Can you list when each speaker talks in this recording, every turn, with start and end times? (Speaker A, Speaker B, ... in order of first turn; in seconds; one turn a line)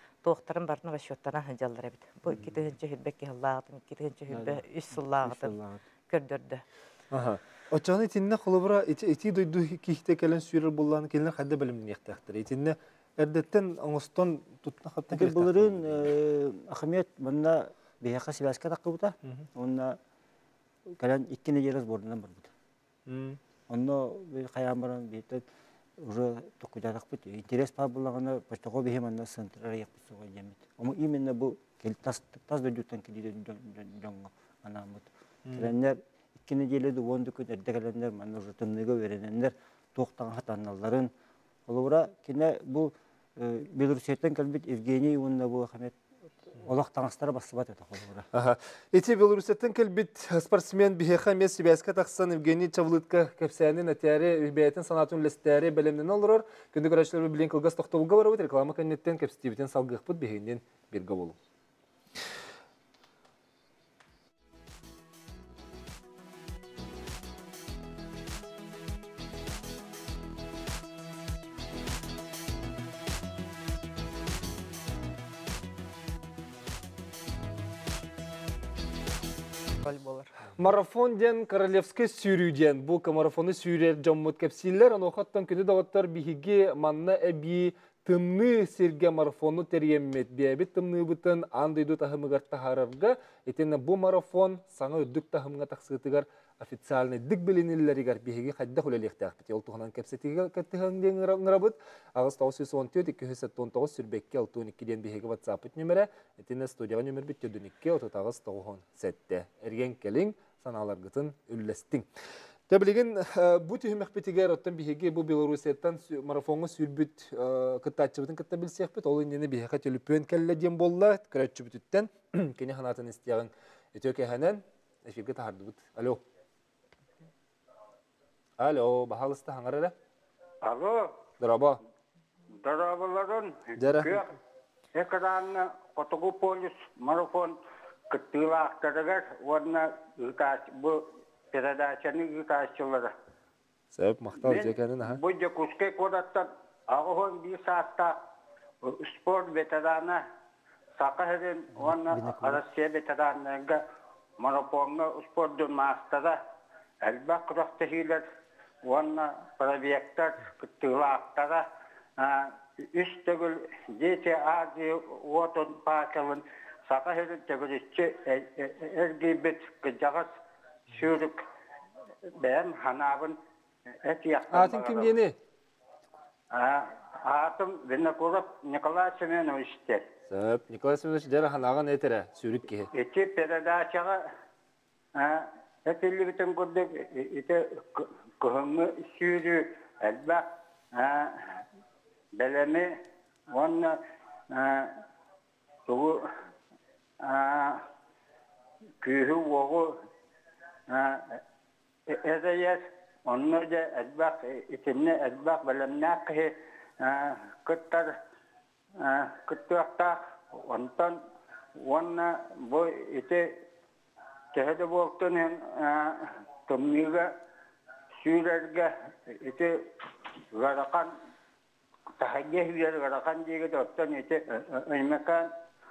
Speaker A: 0.2-5.5
Speaker B: 4.3-5.8
Speaker A: 6.1-6.6
Speaker C: 7.1-15.8
Speaker B: 15.1-20.0
Speaker B: 21.0-22.5
Speaker C: 23.1-23.4
Speaker B: 23.7-25.4
Speaker B: 26.0-41.1
Speaker B: 41.7-46.0
Speaker B: 46.5-48.3
Speaker C: 48.3-61.4
Speaker A: 79.8-80.3
Speaker C: 80.5-112.1
Speaker C: 112.7-126.2
Speaker C: 128.6-129.9
Speaker D: 130.6-131.2
Speaker C: 131.4-131.8
Speaker D: 132.5-134.3
Speaker C: 133.8-134.2
Speaker D: 135.0-137.6
Speaker D: 138.1-143.1
Speaker C: 143.9-145.2
Speaker D: 144.4-148.2
Speaker D: 148.8-150.2
Speaker D: 151.0-153.8
Speaker B: 151.8-152.6
Speaker D: 154.4-156.4
Speaker D: 157.0-158.3
Speaker D: 158.8-161.7
Speaker D: 162.2-170.3
Speaker D: 170.9-171.4
Speaker D: 172.4-173.4
Speaker D: 174.0-175.1
Speaker C: 174.5-175.4
Speaker D: 176.5-180.1
Speaker C: 180.3-182.9
Speaker D: 182.9-184.2
Speaker D: 185.2-191.6
Speaker D: 192.4-192.9
Speaker D: 193.5-193.9
Speaker D: 194.5-194.9
Speaker D: 195.9-196.2
Speaker D: 197.2-197.9
Speaker D: 199.0-199.9
Speaker D: 200.9-201.4
Speaker D: 202.1-208.1
Speaker D: 209.0-211.2
Speaker D: 211.8-213.5
Speaker D: 214.5-217.3
Speaker D: 218.2-219.7
Speaker D: 220.6-221.1
Speaker D: 222.2-225.5